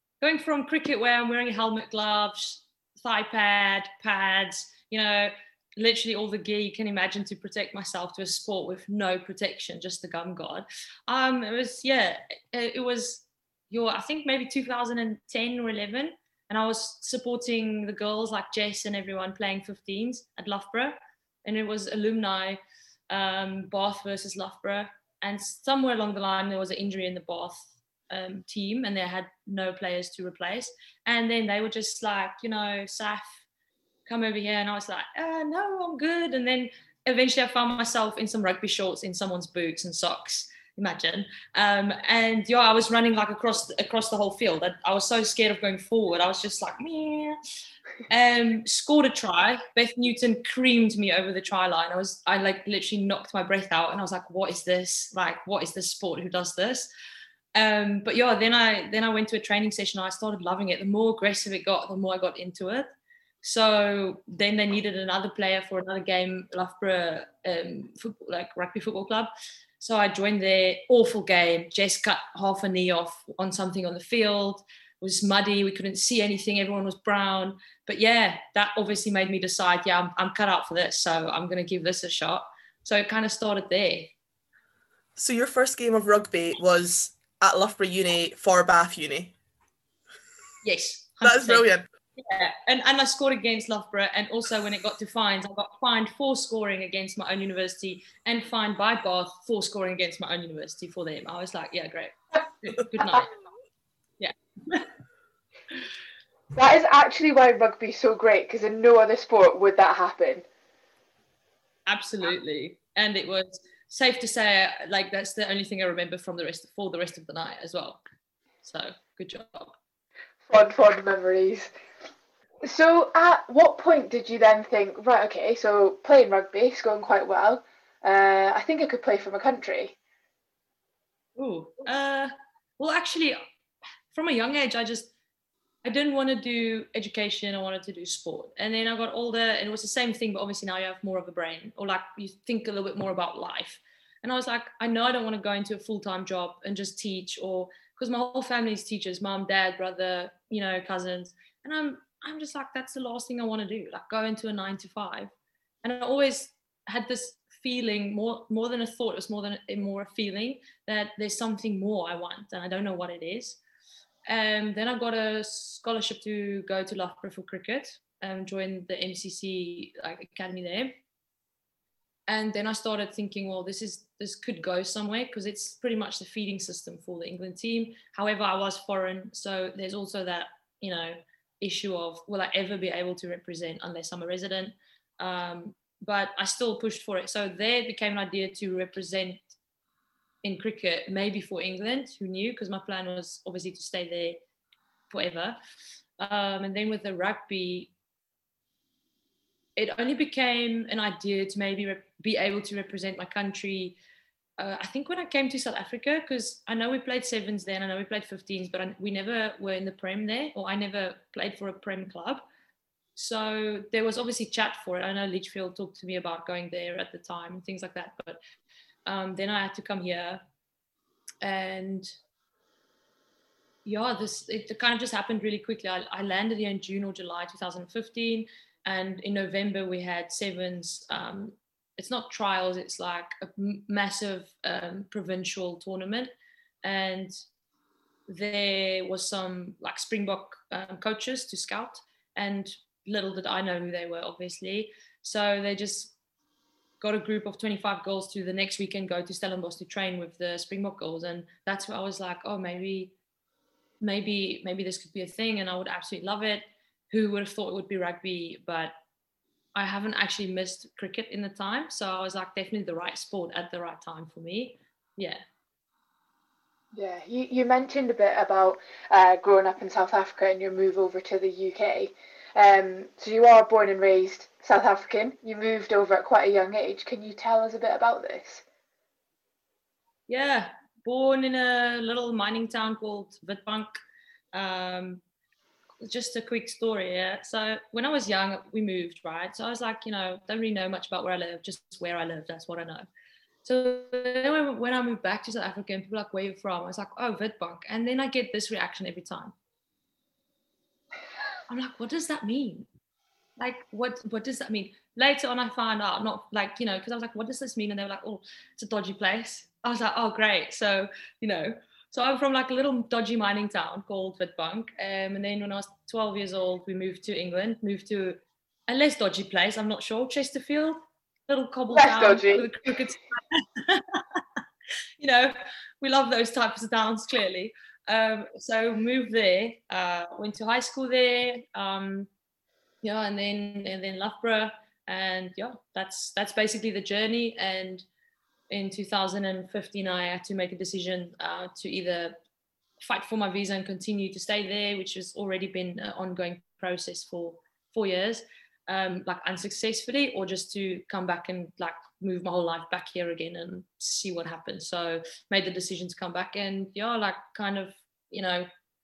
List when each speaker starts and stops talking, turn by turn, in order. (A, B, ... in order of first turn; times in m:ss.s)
0:00.2-0:22.6 A
0:23.1-0:33.4 A
0:34.1-0:47.4 A
0:48.1-0:56.9 A
0:57.5-1:02.9 A
1:03.4-1:24.1 A
1:25.2-1:29.3 B
1:30.6-1:43.3 A
1:31.2-1:31.8 B
1:44.2-1:44.9 A
1:46.5-1:50.4 C
1:51.9-1:58.0 A
1:58.6-1:59.8 A
2:00.5-2:01.7 C
2:02.6-2:09.9 C
2:11.4-2:13.4 A
2:14.1-2:15.1 A
2:15.8-2:35.3 A
2:35.8-2:43.6 A
2:44.3-2:51.0 A
2:52.3-3:09.5 A
3:10.4-3:14.4 A
3:15.1-3:15.6 A
3:16.2-3:17.9 A
3:19.8-3:24.0 A
3:24.6-3:32.4 A
3:33.2-3:38.4 A
3:39.0-3:40.4 A
3:41.4-3:42.1 A
3:43.8-3:56.3 A
3:56.8-3:57.4 A
3:58.3-4:06.1 A
4:07.0-4:13.1 A
4:14.0-4:18.9 A
4:19.7-4:25.4 A
4:26.9-4:38.6 C
4:40.3-4:43.9 A
4:44.5-4:45.2 A
4:46.0-4:53.0 A
4:53.6-4:59.5 A
5:01.7-5:02.9 A
5:03.6-5:24.4 A
5:21.9-5:22.7 C
5:25.2-5:32.3 A
5:33.0-5:38.0 A
5:38.7-5:42.4 A
5:43.0-5:58.7 A